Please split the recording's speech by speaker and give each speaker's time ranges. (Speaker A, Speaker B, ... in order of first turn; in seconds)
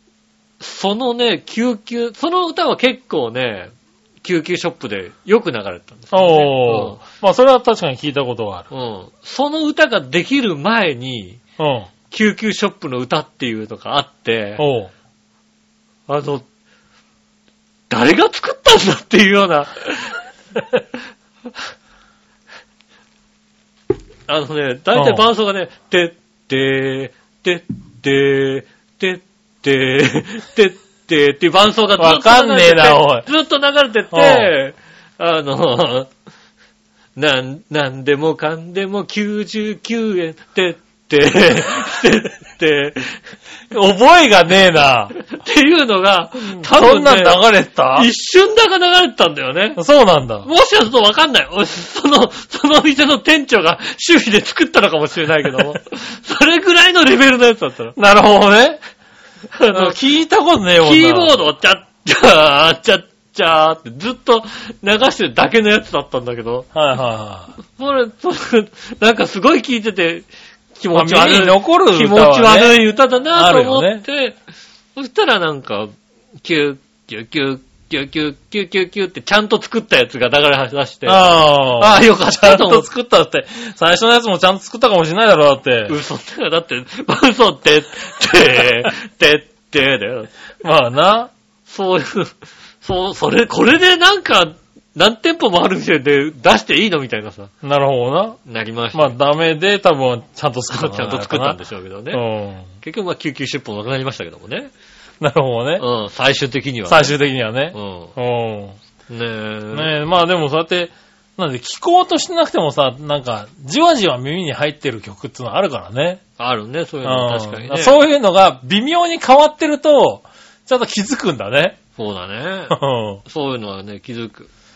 Speaker A: 0.6-7.0, 8.7-11.4, 12.1-14.7, 16.1-16.5, 17.9-20.2, 24.3-36.1, 37.2-43.2, 45.2-49.8, 50.4-58.0, 59.5-60.0, 60.8-66.7, 67.7-74.4, 75.0-82.9, 85.9-90.3, 91.7-97.5, 98.5-99.2, 100.7-102.2, 102.8-104.7, 105.8-107.2, 107.7-108.1, 109.1-110.0, 116.4-118.0, 122.0-124.5
Speaker B: 6.1-8.7, 11.6-11.9, 14.6-14.9, 24.9-25.3, 32.0-33.3, 34.1-34.5, 43.7-45.1, 46.4-48.1, 49.8-50.5, 58.0-58.8, 59.7-61.4, 66.7-67.5, 70.9-72.8, 73.3-74.0, 81.1-86.0, 90.6-91.3, 97.6-98.4, 98.9-101.6, 102.1-102.7, 105.2-105.9, 106.9-108.8, 109.7-116.2, 117.0-121.8, 122.7-123.2